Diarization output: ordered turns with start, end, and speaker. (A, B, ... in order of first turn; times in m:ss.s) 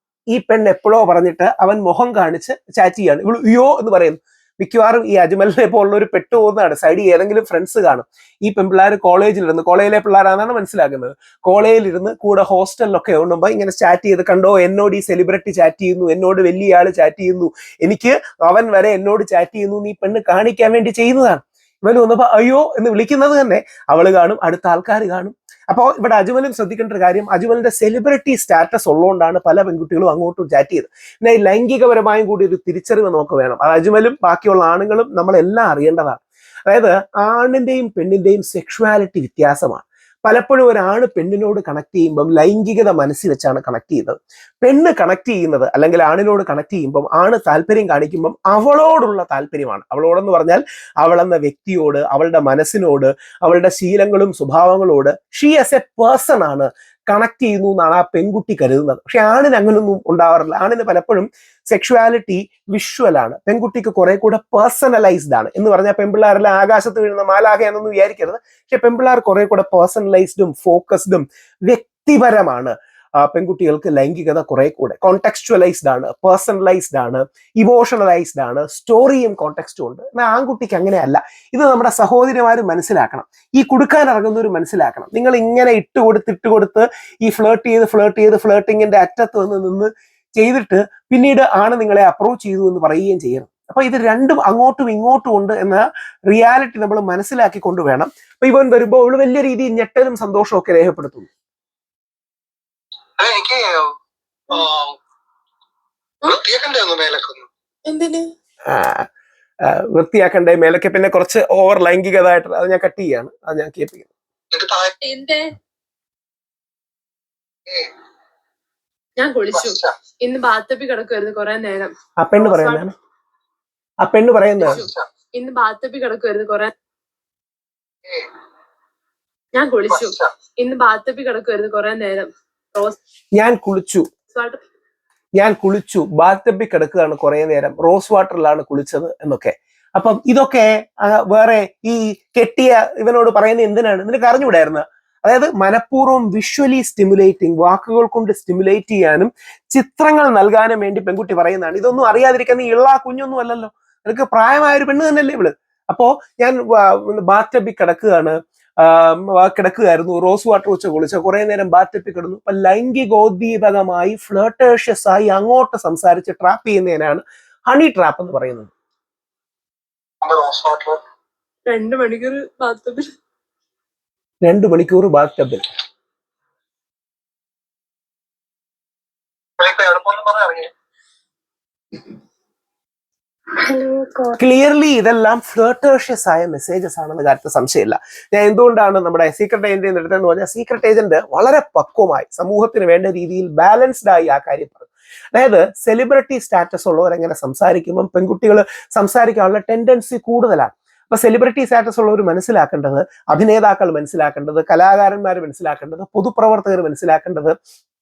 0:00.3-1:41.3 A
1:43.2-1:43.9 B
1:44.5-1:45.0 B
1:46.3-1:47.5 B
1:47.9-1:48.3 C
1:48.7-1:49.1 A
1:49.7-1:54.1 A
1:54.5-1:54.9 B
1:55.0-1:55.6 C
1:59.2-2:02.8 C
1:59.5-1:59.9 B
2:02.2-2:02.9 A
2:04.0-2:04.8 A
2:04.7-2:06.7 C
2:04.7-2:05.1 B
2:09.5-2:13.0 C
2:09.9-2:10.3 B
2:13.4-2:14.1 A
2:14.3-2:14.6 C
2:15.4-2:48.7 A
2:50.2-2:51.0 B
2:51.7-2:53.1 C
2:54.4-2:55.6 A
2:59.6-3:00.7 B
3:03.7-3:04.4 C
3:04.4-3:27.5 A